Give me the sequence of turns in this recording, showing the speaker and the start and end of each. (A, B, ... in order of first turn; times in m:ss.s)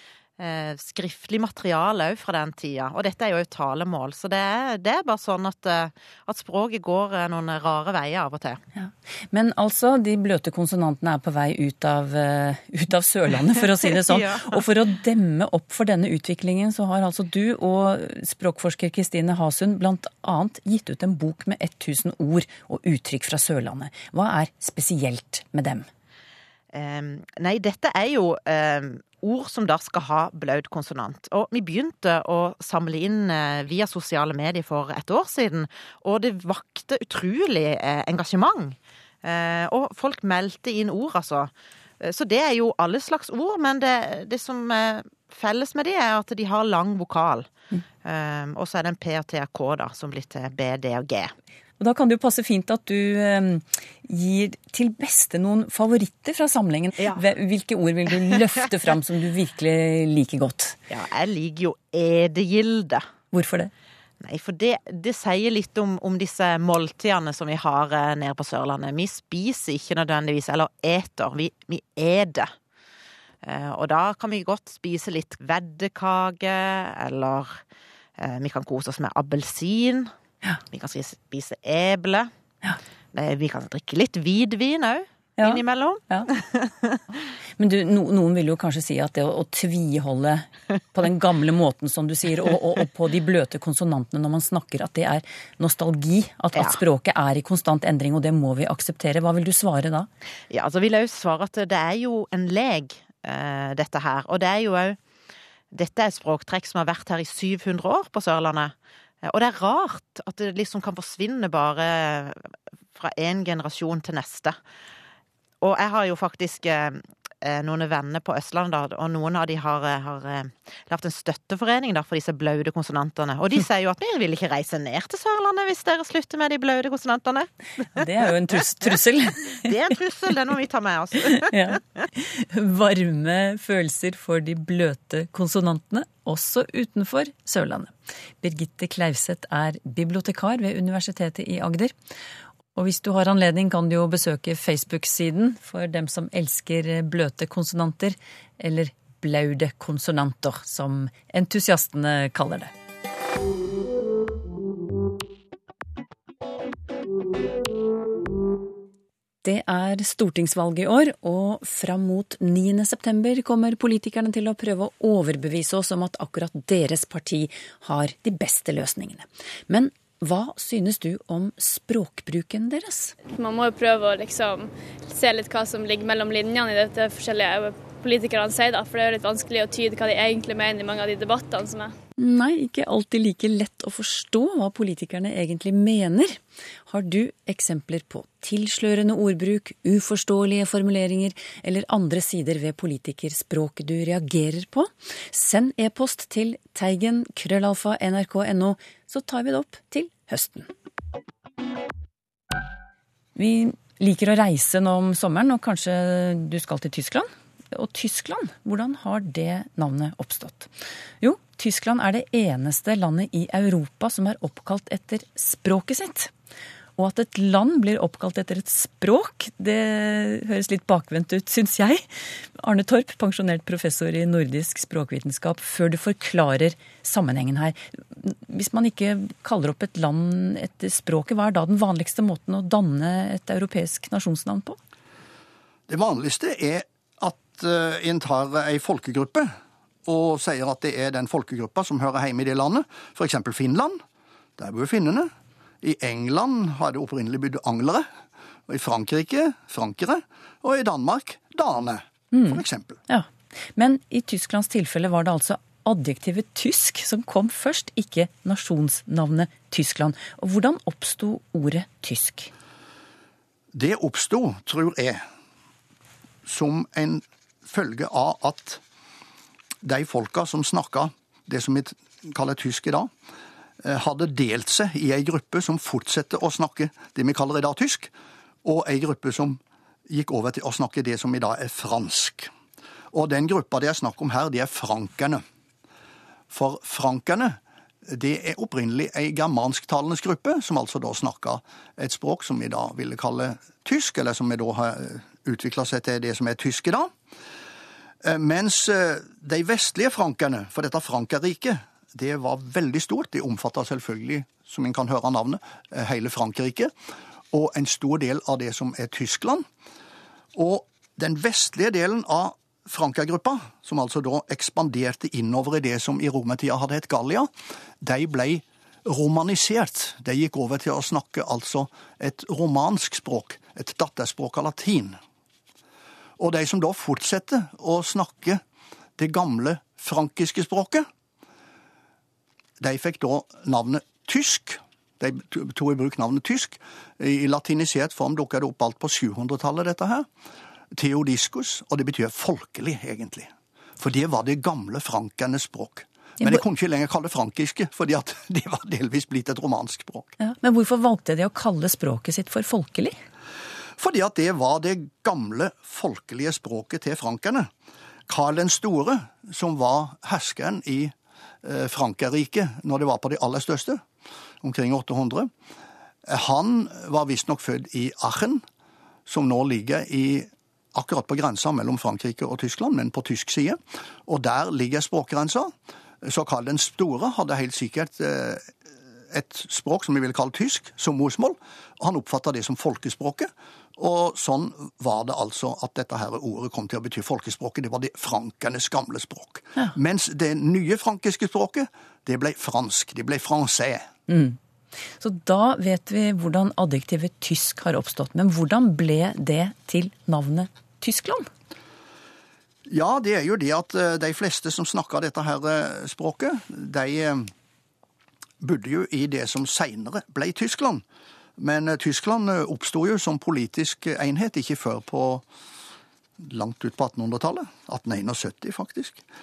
0:00.4-0:08.6 A
0:08.8-0:25.9 B
0:14.0-0:14.6 A
0:26.7-0:47.5 A
0:48.0-0:51.3 A
0:51.8-1:00.8 B
0:57.0-0:57.2 A
1:00.9-1:03.0 A
1:03.3-1:03.7 B
1:04.2-1:12.5 A
1:13.4-1:17.6 A
1:18.2-1:20.1 A
1:20.7-1:22.3 A
1:23.1-1:27.0 A
1:25.4-1:26.3 B
1:27.6-1:40.1 B
1:40.5-1:45.0 A
1:45.7-1:54.6 A
1:55.6-2:07.5 A
2:08.0-2:09.7 B
2:09.6-2:12.0 A
2:11.3-2:21.9 B
2:22.7-2:32.7 B
2:39.4-2:53.2 B
2:53.3-3:01.9 C
3:02.2-3:20.7 B
3:23.4-3:36.3 B
3:37.0-3:54.8 B
3:55.9-3:59.5 D
4:00.0-4:04.0 D
4:04.6-4:05.3 D
4:05.8-4:08.1 D
4:08.7-4:13.0 D
4:12.3-4:22.5 B
4:23.7-4:25.2 D
4:26.4-4:28.8 D
4:29.8-4:33.1 D
4:33.8-4:38.1 D
4:38.6-4:42.5 D
4:43.1-4:45.4 D
4:46.5-4:57.1 D
4:58.2-5:06.9 D
5:07.5-5:09.6 D
5:10.5-5:25.2 D
5:26.4-5:28.6 D
5:29.2-5:31.1 D
5:32.8-5:40.3 D
5:40.9-5:50.4 D
5:50.4-5:53.2 B
5:54.0-5:57.7 D
5:58.3-6:04.0 D
6:04.6-6:05.5 D
6:06.2-6:08.6 D
6:09.3-6:18.7 D
6:19.3-6:34.1 D
6:34.3-6:34.6 B
6:35.2-6:41.5 B
6:42.9-6:47.5 D
6:48.6-6:51.0 D
6:51.6-6:55.4 D
6:56.4-6:59.2 D